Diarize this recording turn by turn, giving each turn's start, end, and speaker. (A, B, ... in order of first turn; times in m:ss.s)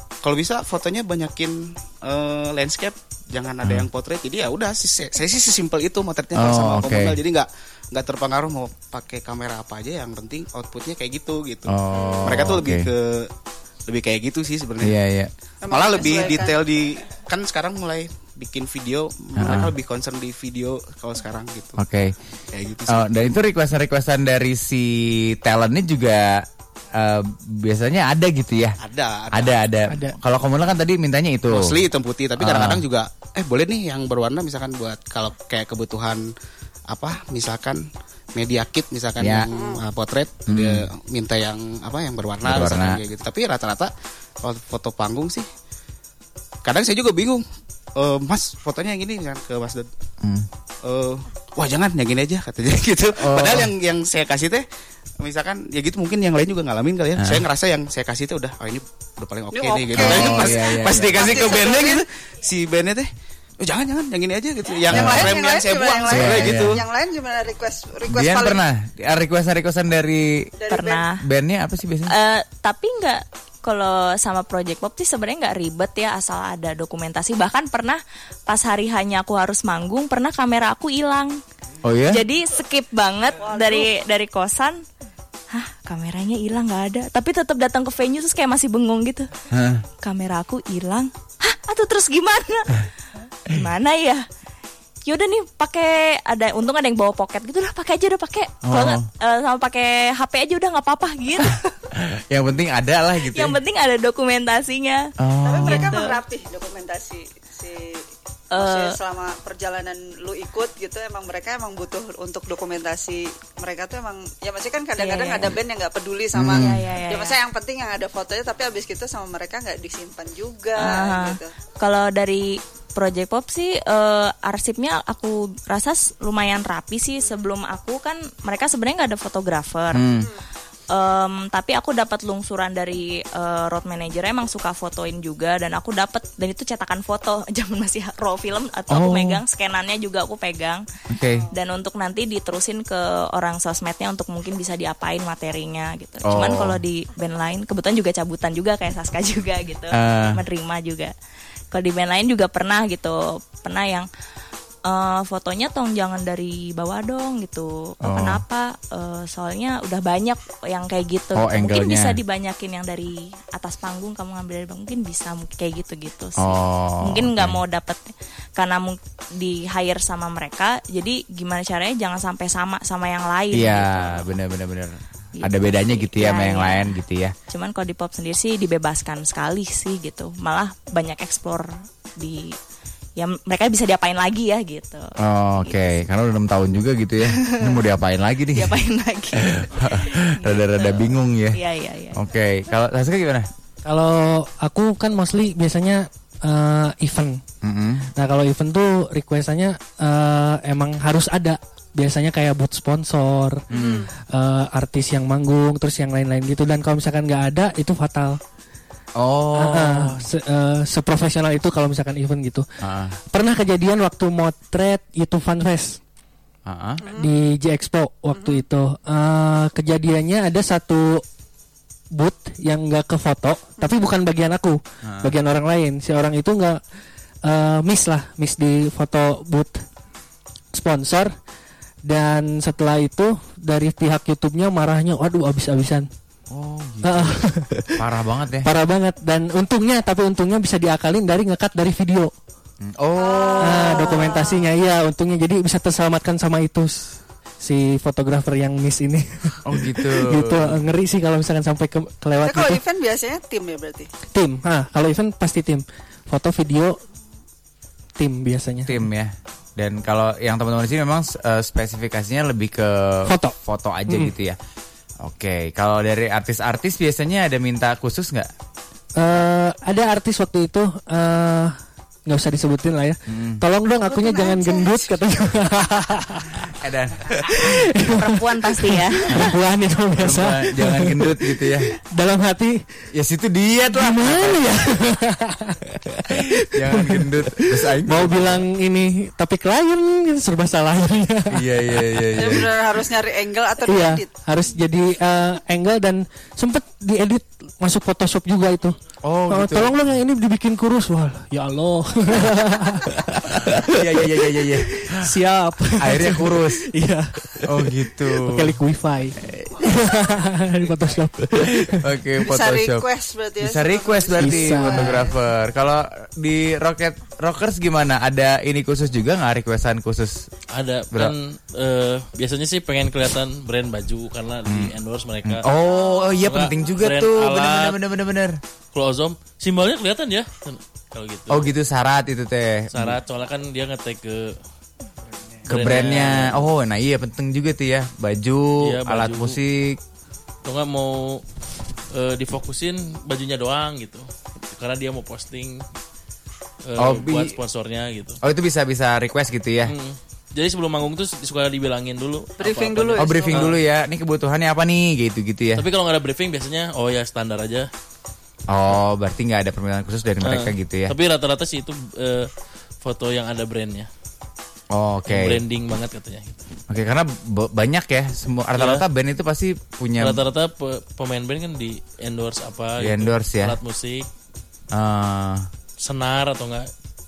0:00.2-0:13.3 A
0:06.3-0:07.2 B
0:11.7-0:12.9 B
0:11.9-0:12.3 C
0:13.9-0:14.9 A
0:14.8-0:15.3 B
0:15.6-0:16.6 C
0:15.7-0:21.8 A
0:19.4-0:19.7 B
0:21.8-0:22.2 B
0:22.5-0:23.2 A
0:22.9-0:28.8 B
0:28.8-0:29.6 A
0:29.3-0:31.8 B
0:29.9-0:30.1 D
0:31.5-0:36.2 A
0:32.4-0:32.8 B
0:36.9-0:43.9 A
0:39.2-0:39.5 B
0:40.5-0:40.8 B
0:42.4-0:43.0 B
0:44.4-0:45.5 A
0:46.6-0:47.4 A
0:47.9-0:49.9 A
0:50.2-0:50.5 B
0:50.8-0:54.6 A
0:53.2-0:53.7 B
0:55.2-1:06.8 A
0:57.2-0:57.4 B
0:59.5-1:02.0 C
0:59.9-1:01.5 B
1:04.8-1:08.6 C
1:04.9-1:05.4 B
1:06.1-1:06.8 B
1:08.1-1:10.5 B
1:10.6-1:11.0 C
1:10.7-1:11.2 E
1:11.2-1:12.1 B
1:12.1-1:21.4 E
1:21.8-1:22.2 B
1:22.1-1:24.8 E
1:23.4-1:24.0 C
1:25.5-1:29.3 E
1:29.5-1:29.8 B
1:30.0-1:32.9 E
1:33.5-1:34.2 E
1:35.0-1:41.7 E
1:38.6-1:39.0 B
1:42.0-1:43.6 B
1:43.3-1:45.1 E
1:45.2-1:45.9 B
1:45.4-2:01.5 C
1:45.6-1:46.2 E
1:48.5-1:49.0 E
1:55.0-1:55.5 E
1:56.3-1:56.8 B
1:56.5-1:57.4 E
2:00.8-2:10.2 E
2:09.9-2:10.3 B
2:10.9-2:20.8 E
2:18.9-2:19.4 B
2:21.1-2:21.4 B
2:21.5-2:31.1 E
2:26.2-2:26.8 B
2:29.9-2:30.4 B
2:31.7-2:34.1 E
2:34.8-2:54.3 E
2:38.0-2:38.4 B
2:41.3-2:42.2 B
2:46.4-2:47.6 B
2:53.5-2:57.3 B
2:55.4-2:56.9 E
2:57.5-3:02.6 E
3:03.2-3:06.0 E
3:05.2-3:08.8 B
3:07.4-3:07.8 E
3:08.5-3:12.2 E
3:09.4-3:11.6 B
3:12.1-3:13.5 B
3:13.8-3:17.4 D
3:17.6-3:18.1 B
3:18.2-3:23.6 D
3:23.7-3:24.1 B
3:23.7-3:24.1 C
3:24.3-3:28.4 D
3:29.2-3:30.2 B
3:29.5-3:32.6 D
3:32.8-3:33.1 B
3:33.3-3:36.0 D
3:36.6-3:37.0 B
3:37.0-3:37.3 C
3:37.1-3:41.2 D
3:42.1-3:46.8 D
3:45.0-3:45.3 B
3:47.4-3:49.8 D
3:50.7-3:51.3 D
3:52.0-3:56.1 D
3:56.5-3:57.4 B
3:57.0-3:58.0 D
3:57.9-3:58.7 B
3:58.6-4:02.3 D
4:02.8-4:04.1 B
4:03.1-4:04.7 C
4:03.6-4:12.8 D
4:09.6-4:10.8 B
4:12.4-4:14.1 C
4:14.3-4:17.0 D
4:18.2-4:19.0 D
4:18.8-4:24.6 B
4:23.3-4:23.5 D
4:25.2-4:28.5 B
4:29.2-4:36.6 D
4:33.3-4:33.6 B
4:34.1-4:35.2 C
4:36.6-4:37.9 B
4:37.5-4:42.8 D
4:38.0-4:39.4 E
4:39.3-4:39.5 B
4:40.2-4:41.9 B
4:43.1-4:45.1 B
4:43.9-4:51.6 D
4:46.3-4:48.6 B
4:51.5-4:52.7 B
4:52.4-4:54.3 C
4:53.9-4:59.0 D
4:59.2-5:00.0 B
4:59.5-5:12.0 D
5:03.5-5:05.3 B
5:06.0-5:06.8 B
5:07.6-5:08.8 B
5:11.8-5:13.1 B
5:12.4-5:15.3 C
5:13.6-5:20.5 B
5:14.4-5:15.2 D
5:20.7-5:25.7 F
5:24.6-5:28.6 B
5:26.4-5:28.0 F
5:28.9-5:31.7 F
5:31.5-5:33.2 B
5:32.9-5:34.6 F
5:35.7-5:36.6 F
5:35.7-5:40.0 B
5:38.8-5:39.6 F
5:40.6-5:41.4 F
5:42.1-5:45.8 F
5:46.8-5:48.4 F
5:47.0-5:47.6 B
5:48.4-5:49.9 B
5:49.8-5:53.8 F
5:52.6-5:53.7 C
5:53.2-5:55.9 B
5:55.8-5:57.9 F
5:58.7-6:01.1 B
6:00.4-6:02.5 F
6:03.0-6:04.1 F
6:04.9-6:05.6 B
6:05.3-6:06.5 F
6:06.9-6:10.4 B
6:08.8-6:09.0 F
6:10.2-6:14.3 F
6:13.0-6:13.8 B
6:14.9-6:15.7 B
6:16.0-6:16.9 F